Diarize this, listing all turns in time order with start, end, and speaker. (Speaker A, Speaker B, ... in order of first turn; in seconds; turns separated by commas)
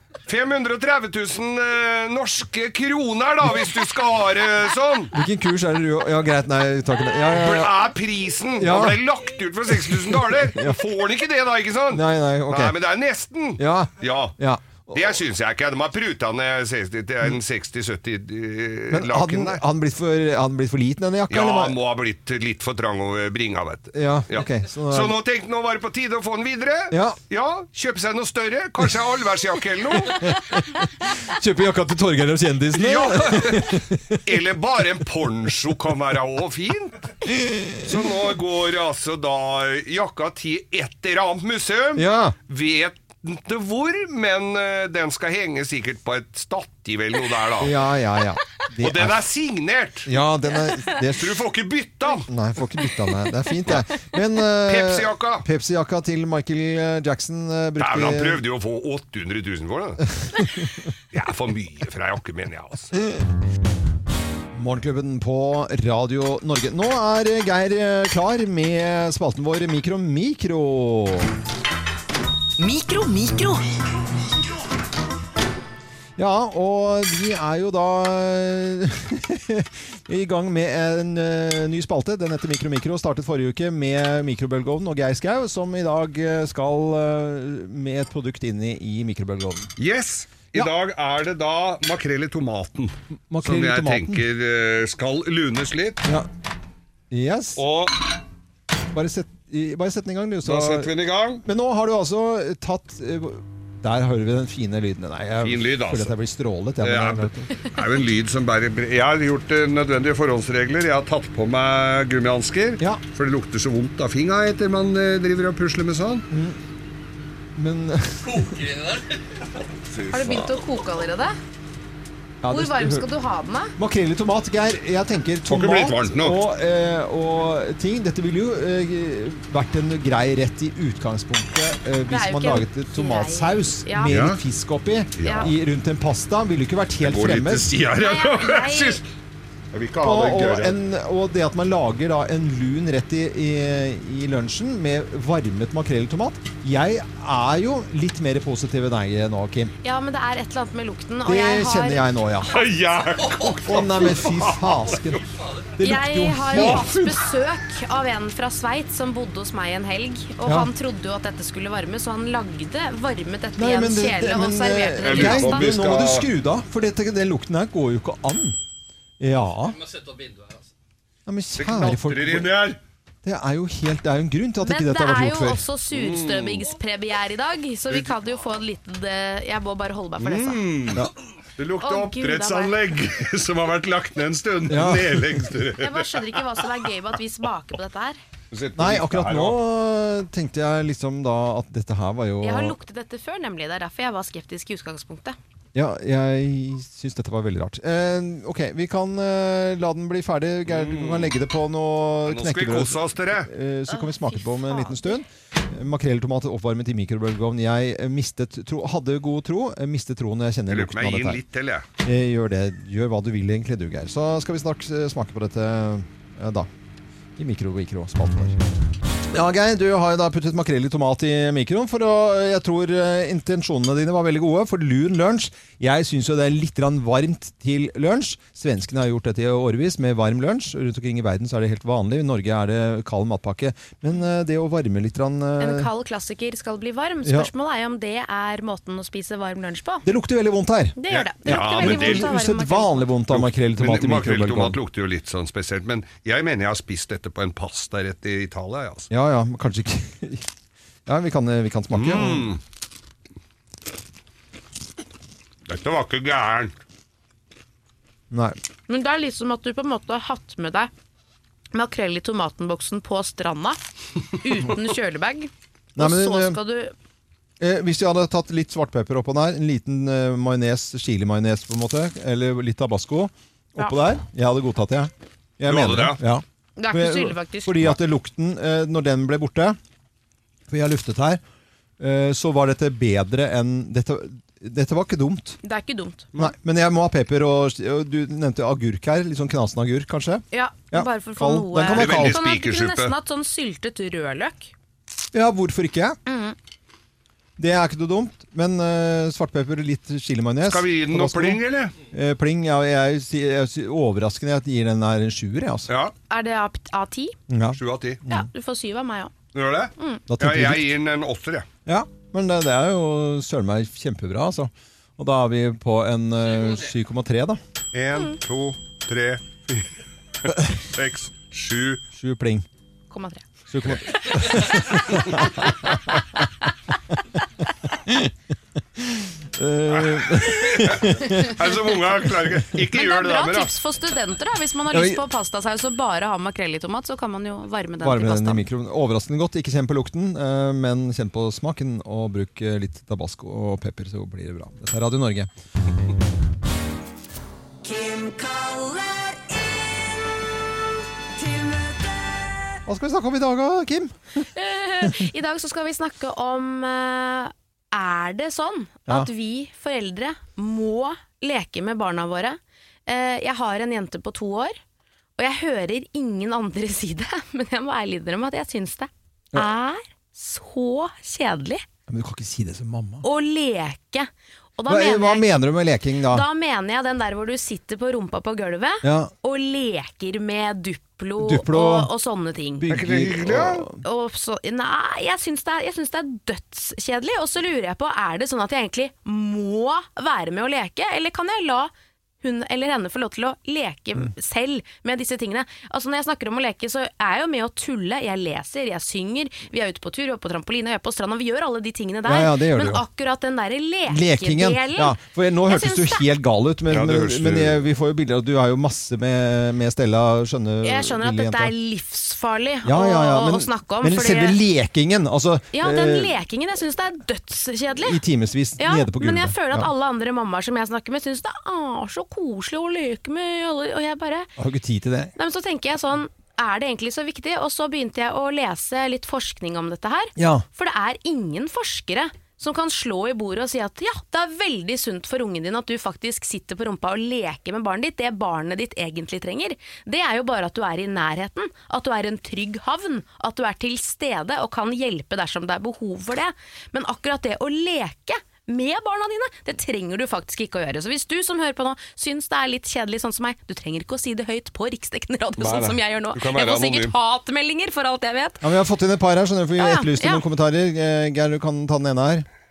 Speaker A: 0.2-5.2, Speaker B: 5.1-7.8, Speaker A: 7.3-14.4, Speaker B: 8.6-9.0, Speaker B: 10.4-10.8, Speaker B: 11.9-12.8, Speaker B: 13.6-15.0, Speaker A: 14.9-19.6, Speaker B: 18.9-21.8, Speaker A: 21.3-30.3, Speaker B: 23.9-25.2, Speaker B: 26.9-27.2, Speaker B: 30.2-34.2, Speaker A: 32.7-37.1, Speaker B: 37.4-37.8, Speaker A: 37.8-47.8, Speaker B: 42.0-42.4, Speaker B: 47.6-49.2, Speaker A: 48.8-50.1, Speaker B: 50.1-51.4, Speaker A: 51.0-52.3, Speaker B: 52.3-58.4, Speaker A: 54.6-55.5, Speaker A: 57.8-60.0, Speaker A: 61.1-63.0, Speaker B: 64.5-71.3, Speaker C: 72.6-73.6, Speaker B: 76.2-89.7, Speaker A: 89.8-96.0, Speaker B: 93.3-94.2, Speaker B: 97.1-97.6, Speaker A: 97.6-98.0, Speaker B: 98.9-100.9, Speaker A: 100.4-101.4, Speaker B: 101.4-107.5, Speaker A: 105.4-106.2, Speaker A: 106.8-116.3, Speaker B: 116.3-116.6, Speaker B: 117.6-118.7, Speaker A: 119.7-120.6, Speaker D: 120.1-121.4, Speaker B: 122.4-123.0, Speaker D: 122.5-123.8, Speaker B: 123.8-137.8, Speaker A: 125.5-126.4, Speaker D: 132.1-134.2, Speaker A: 134.1-134.4, Speaker A: 135.2-135.5, Speaker D: 135.2-135.5, Speaker A: 137.0-139.1, Speaker D: 138.0-139.0, Speaker A: 139.7-140.8, Speaker B: 140.0-149.7, Speaker D: 149.8-152.1, Speaker B: 151.2-152.6, Speaker A: 152.5-155.2, Speaker B: 153.6-155.2, Speaker B: 155.8-156.9, Speaker D: 155.8-165.7, Speaker A: 156.5-157.2, Speaker B: 160.4-160.7, Speaker B: 163.6-168.6, Speaker A: 165.0-166.3, Speaker B: 169.2-169.8, Speaker B: 171.3-172.5, Speaker A: 171.6-172.8, Speaker B: 173.2-175.6, Speaker D: 174.6-180.8, Speaker A: 175.9-176.7, Speaker A: 180.2-186.6, Speaker D: 181.8-182.8, Speaker B: 184.7-185.4, Speaker D: 185.8-188.2, Speaker A: 188.5-189.6, Speaker B: 188.8-192.8, Speaker D: 192.4-195.4, Speaker B: 195.8-211.4, Speaker A: 200.7-201.4, Speaker A: 202.3-203.5, Speaker D: 203.9-205.2, Speaker A: 210.7-211.9, Speaker B: 212.0-216.7, Speaker B: 217.4-218.6, Speaker B: 219.3-235.9, Speaker D: 235.6-240.1, Speaker B: 237.2-237.5, Speaker B: 240.0-244.8, Speaker D: 241.0-243.1, Speaker A: 241.1-242.3, Speaker A: 243.3-249.1, Speaker B: 249.1-250.4, Speaker B: 251.1-252.5, Speaker A: 251.9-252.6, Speaker A: 255.7-256.7, Speaker B: 258.3-258.6, Speaker D: 258.9-260.9, Speaker D: 261.7-263.8, Speaker D: 264.3-266.9, Speaker B: 266.0-266.6, Speaker B: 267.6-279.8, Speaker A: 275.6-276.2, Speaker D: 276.8-277.9, Speaker B: 280.7-281.4, Speaker B: 282.0-285.6, Speaker D: 285.6-286.3, Speaker B: 286.4-292.4, Speaker D: 290.5-294.7, Speaker A: 291.9-293.1, Speaker B: 295.3-296.2, Speaker D: 296.3-296.6, Speaker B: 297.6-305.9, Speaker A: 300.6-302.0, Speaker A: 305.9-306.1, Speaker D: 306.3-307.4, Speaker B: 307.5-308.5, Speaker A: 307.8-308.2, Speaker D: 308.3-309.4, Speaker A: 309.5-311.7, Speaker D: 310.0-310.2, Speaker B: 310.3-310.9, Speaker B: 311.9-317.6, Speaker A: 317.9-319.9, Speaker A: 320.4-322.0, Speaker B: 320.5-320.8, Speaker B: 322.1-322.7, Speaker D: 323.1-323.4, Speaker B: 323.7-326.2, Speaker D: 324.1-325.7, Speaker B: 327.9-328.3, Speaker B: 329.0-331.6, Speaker A: 329.9-333.7, Speaker D: 332.9-338.7, Speaker B: 334.9-335.2, Speaker B: 338.0-345.5, Speaker C: 347.8-350.5, Speaker C: 351.3-352.8, Speaker B: 352.9-354.2, Speaker D: 354.5-364.8, Speaker D: 365.4-371.8, Speaker B: 372.1-373.3, Speaker D: 373.2-375.6, Speaker B: 374.9-376.4, Speaker D: 376.3-382.9, Speaker B: 379.0-379.3, Speaker B: 381.4-382.1, Speaker B: 382.8-384.0, Speaker A: 382.9-383.9, Speaker D: 384.0-391.9, Speaker D: 392.4-406.3, Speaker B: 402.2-403.0, Speaker B: 404.1-411.7, Speaker A: 406.9-407.8, Speaker D: 410.8-414.6, Speaker B: 412.9-416.3, Speaker D: 415.7-418.2, Speaker B: 418.0-419.9, Speaker D: 418.8-424.5, Speaker B: 424.6-425.3, Speaker D: 425.4-458.6, Speaker B: 430.4-430.6, Speaker A: 455.6-457.1, Speaker B: 458.6-462.5, Speaker D: 459.8-460.4